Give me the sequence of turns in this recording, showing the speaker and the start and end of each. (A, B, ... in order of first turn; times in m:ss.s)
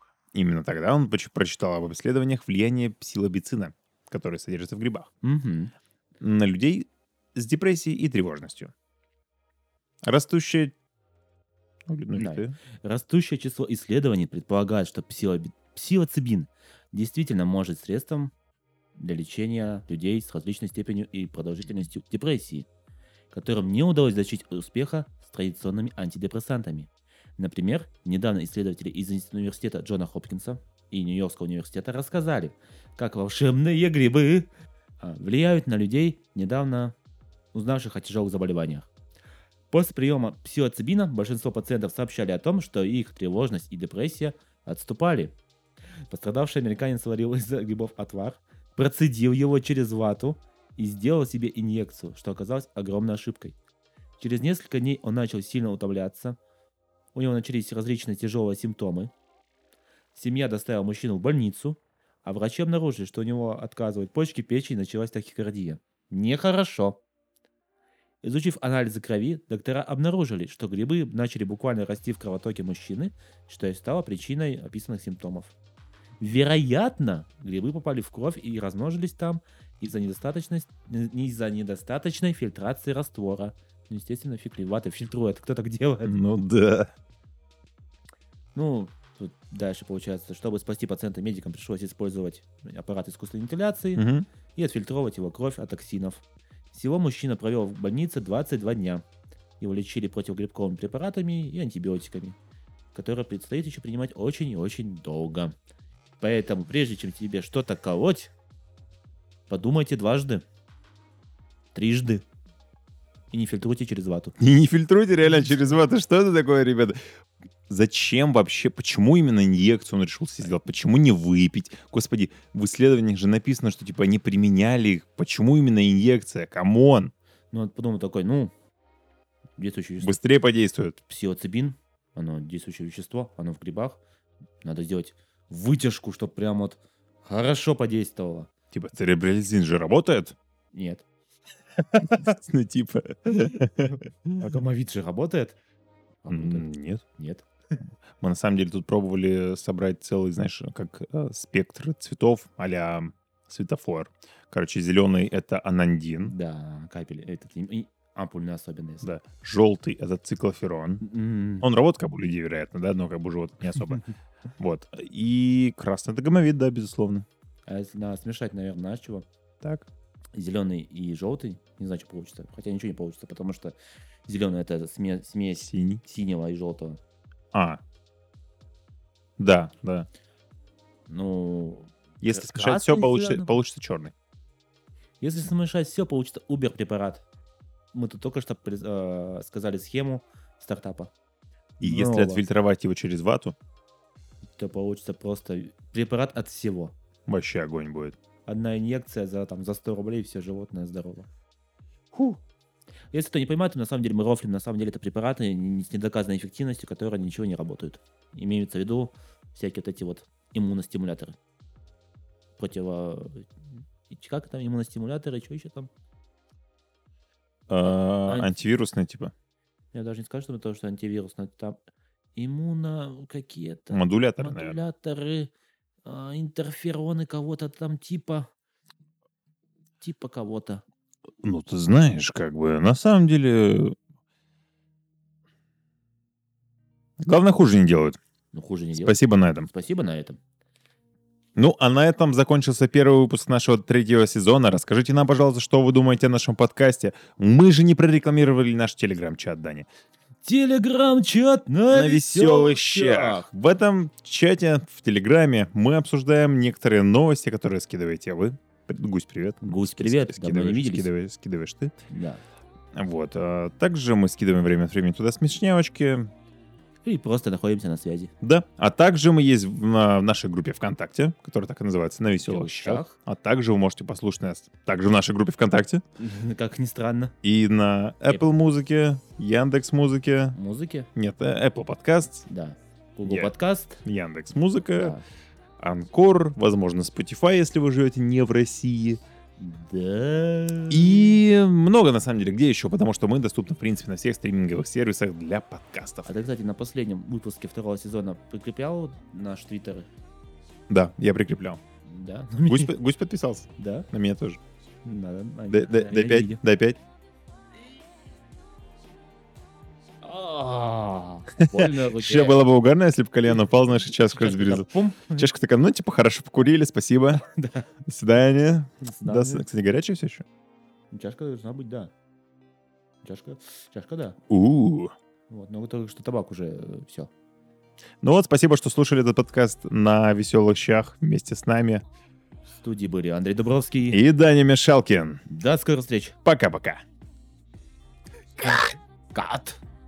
0:00.3-0:05.1 A
0:05.2-0:05.7 B
0:06.2-0:08.7 A
0:10.0-0:10.7 A
0:11.9-0:12.5 A
0:12.1-0:18.3 B
0:19.0-0:22.7 B
0:23.3-0:34.5 B
0:35.0-0:36.9 B
0:37.5-0:38.9 B
0:39.7-0:45.3 B
0:46.1-0:53.6 B
0:54.2-0:56.4 B
0:57.1-0:59.1 B
1:00.1-1:07.0 B
1:08.2-1:15.5 B
1:16.2-1:26.2 B
1:26.0-1:26.9 A
1:28.5-1:39.0 B
1:34.0-1:34.3 A
1:39.6-1:42.4 B
1:42.9-1:45.5 B
1:46.2-1:48.3 B
1:49.5-1:50.4 B
1:51.7-1:52.2 B
1:53.3-1:54.3 B
1:54.4-1:57.0 A
1:57.7-2:07.1 A
2:07.5-2:08.5 B
2:09.6-2:10.2 B
2:10.0-2:11.0 A
2:11.1-2:14.0 B
2:14.6-2:18.5 B
2:18.7-2:20.3 A
2:20.7-2:21.0 B
2:21.8-2:22.3 B
2:22.0-2:24.4 A
2:23.8-2:25.6 B
2:26.2-2:27.4 B
2:26.3-2:27.0 A
2:28.2-2:36.3 A
2:36.2-2:39.1 B
2:39.0-2:41.0 A
2:41.0-2:41.7 B
2:41.6-2:44.0 A
2:44.6-2:47.2 A
2:47.6-2:49.2 B
2:49.6-2:49.9 A
2:50.4-2:53.7 B
2:54.3-2:57.0 B
2:55.7-2:56.0 A
2:57.5-2:57.8 A
2:59.4-3:00.1 A
3:01.1-3:03.5 B
3:02.2-3:04.1 A
3:05.2-3:07.2 B
3:07.9-3:11.1 B
3:11.8-3:12.4 B
3:11.8-3:13.5 A
3:14.6-3:16.9 B
3:17.3-3:18.2 A
3:18.4-3:21.3 B
3:22.1-3:22.4 B
3:23.1-3:31.4 B
3:32.6-3:33.5 B
3:34.1-3:35.9 B
3:37.7-3:39.3 A
3:37.8-3:38.5 B
3:39.9-3:41.8 B
3:42.4-3:45.5 B
3:43.9-3:44.8 A
3:46.0-3:48.5 B
3:50.0-3:50.8 B
3:51.4-3:54.0 A
3:57.2-3:58.2 A
3:58.5-4:00.4 B
3:59.0-3:59.7 A
4:01.6-4:09.9 A
4:10.4-4:13.5 B
4:11.9-4:21.9 A
4:19.6-4:21.1 B
4:22.1-4:22.4 B
4:22.9-4:26.3 A
4:27.0-4:28.3 B
4:28.4-4:36.0 A
4:32.4-4:33.2 B
4:36.2-4:37.3 B
4:37.4-4:40.6 A
4:40.5-4:41.1 B
4:41.1-4:42.5 A
4:42.5-4:44.0 B
4:43.2-4:43.5 A
4:44.0-4:45.1 A
4:45.0-4:45.2 B
4:45.8-4:49.2 A
4:49.6-4:51.4 B
4:50.9-4:56.3 A
4:56.2-5:00.1 B
5:00.9-5:01.8 A
5:02.0-5:02.9 B
5:02.7-5:04.6 A
5:03.8-5:04.1 B
5:05.0-5:06.6 B
5:05.7-5:07.0 A
5:10.2-5:12.6 B
5:11.6-5:17.4 A
5:14.3-5:15.5 B
5:17.4-5:17.9 B
5:18.0-5:20.4 A
5:19.0-5:19.6 B
5:21.1-5:22.1 B
5:23.2-5:24.4 B
5:24.5-5:25.1 A
5:25.5-5:27.3 B
5:28.2-5:32.0 A
5:32.8-5:34.2 B
5:34.1-5:35.4 A
5:35.5-5:36.4 B
5:36.4-5:37.0 A
5:38.6-5:39.8 B